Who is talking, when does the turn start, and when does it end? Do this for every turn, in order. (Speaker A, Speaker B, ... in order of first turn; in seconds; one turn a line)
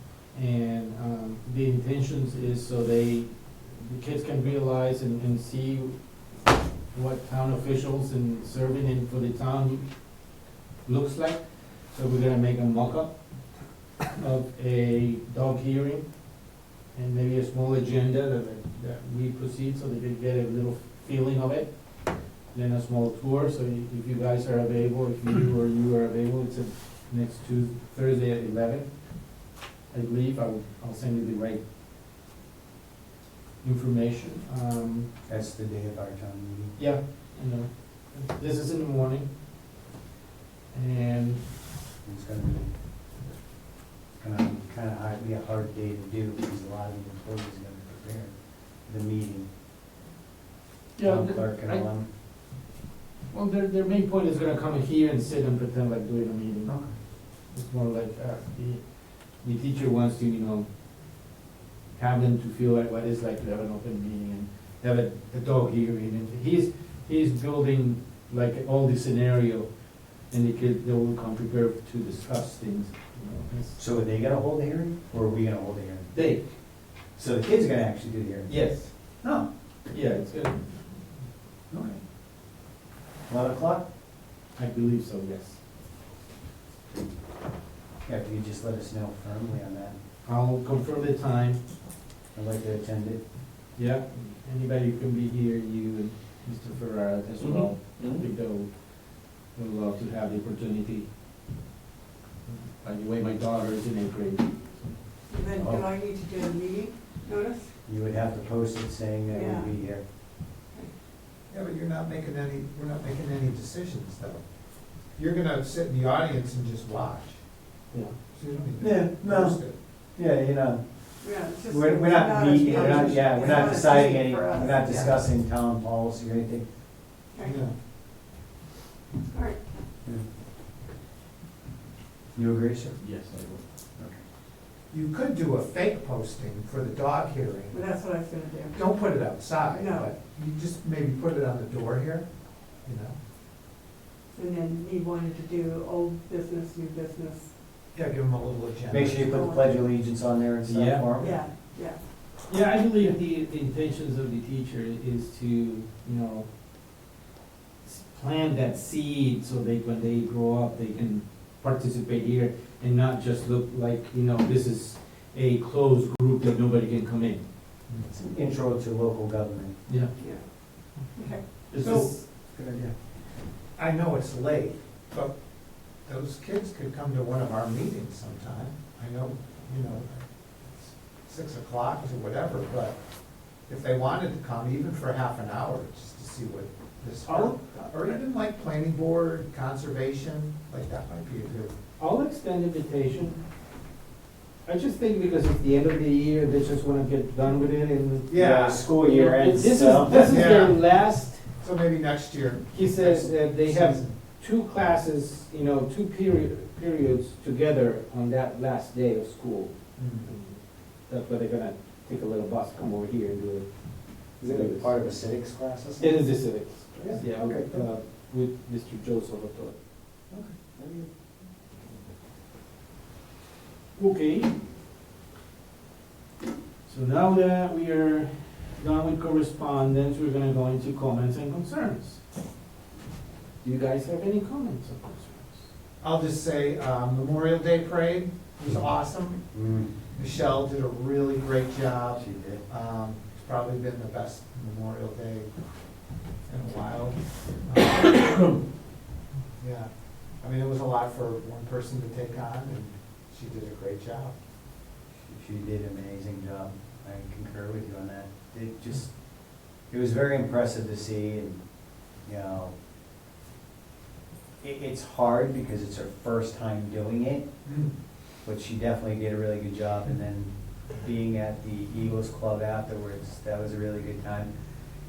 Speaker A: 0.3-6.0
Speaker A: 6.9-9.9
Speaker A: 10.8-13.1
Speaker A: 14.2-16.1
Speaker A: 16.9-21.7
Speaker A: 22.5-28.9
Speaker A: 29.9-31.6
Speaker A: 33.6-35.1
Speaker B: 35.3-36.8
Speaker A: 36.8-39.3
Speaker A: 40.7-41.4
Speaker B: 42.0-42.7
Speaker B: 44.1-49.5
Speaker A: 51.0-51.8
Speaker B: 51.0-52.1
Speaker A: 53.3-56.7
Speaker B: 56.6-56.9
Speaker A: 57.4-60.7
Speaker A: 62.0-69.7
Speaker A: 70.3-73.8
Speaker B: 73.8-76.2
Speaker A: 76.1-76.4
Speaker B: 77.2-78.6
Speaker A: 78.5-78.9
Speaker A: 79.9-81.0
Speaker B: 81.7-82.0
Speaker B: 83.3-83.8
Speaker A: 84.6-85.6
Speaker B: 88.0-90.0
Speaker A: 90.2-91.6
Speaker B: 92.3-93.2
Speaker A: 93.8-98.7
Speaker B: 97.4-98.2
Speaker A: 99.5-101.1
Speaker A: 102.5-105.0
Speaker C: 105.3-107.7
Speaker B: 105.6-105.8
Speaker B: 107.9-110.0
Speaker C: 109.3-109.7
Speaker D: 111.5-114.4
Speaker D: 115.1-117.4
Speaker D: 118.3-119.7
Speaker B: 118.8-120.8
Speaker C: 121.2-125.2
Speaker B: 121.5-126.7
Speaker C: 127.3-127.6
Speaker D: 127.4-127.7
Speaker C: 129.3-129.6
Speaker B: 132.3-133.0
Speaker A: 133.0-133.6
Speaker D: 134.9-137.8
Speaker C: 137.7-139.2
Speaker D: 138.7-143.2
Speaker C: 139.7-140.1
Speaker C: 144.3-147.5
Speaker D: 147.9-149.4
Speaker B: 148.9-151.4
Speaker C: 149.2-149.8
Speaker A: 150.6-151.0
Speaker C: 151.2-152.0
Speaker A: 152.5-156.5
Speaker A: 157.8-167.4
Speaker B: 168.1-169.8
Speaker C: 170.2-171.4
Speaker A: 171.7-172.2
Speaker B: 171.8-172.9
Speaker D: 171.8-172.1
Speaker D: 173.8-175.4
Speaker D: 176.0-183.0
Speaker D: 183.6-191.7
Speaker A: 187.2-188.2
Speaker A: 192.0-193.4
Speaker A: 194.6-201.4
Speaker D: 198.3-198.8
Speaker B: 198.3-200.5
Speaker D: 200.3-200.8
Speaker D: 201.6-204.1
Speaker A: 202.7-213.7
Speaker D: 210.0-210.3
Speaker A: 214.4-214.9
Speaker B: 214.4-216.3
Speaker A: 216.0-219.8
Speaker B: 216.9-217.9
Speaker B: 220.3-221.1
Speaker A: 223.9-224.5
Speaker A: 226.8-232.2
Speaker A: 233.6-235.6
Speaker D: 236.0-239.4
Speaker B: 239.5-239.9
Speaker D: 240.1-245.5
Speaker B: 242.1-242.6
Speaker D: 246.5-248.4
Speaker D: 249.6-254.3
Speaker B: 255.2-259.2
Speaker B: 259.8-261.6
Speaker B: 262.2-262.7
Speaker B: 264.6-267.5
Speaker D: 267.6-267.9
Speaker B: 268.4-274.5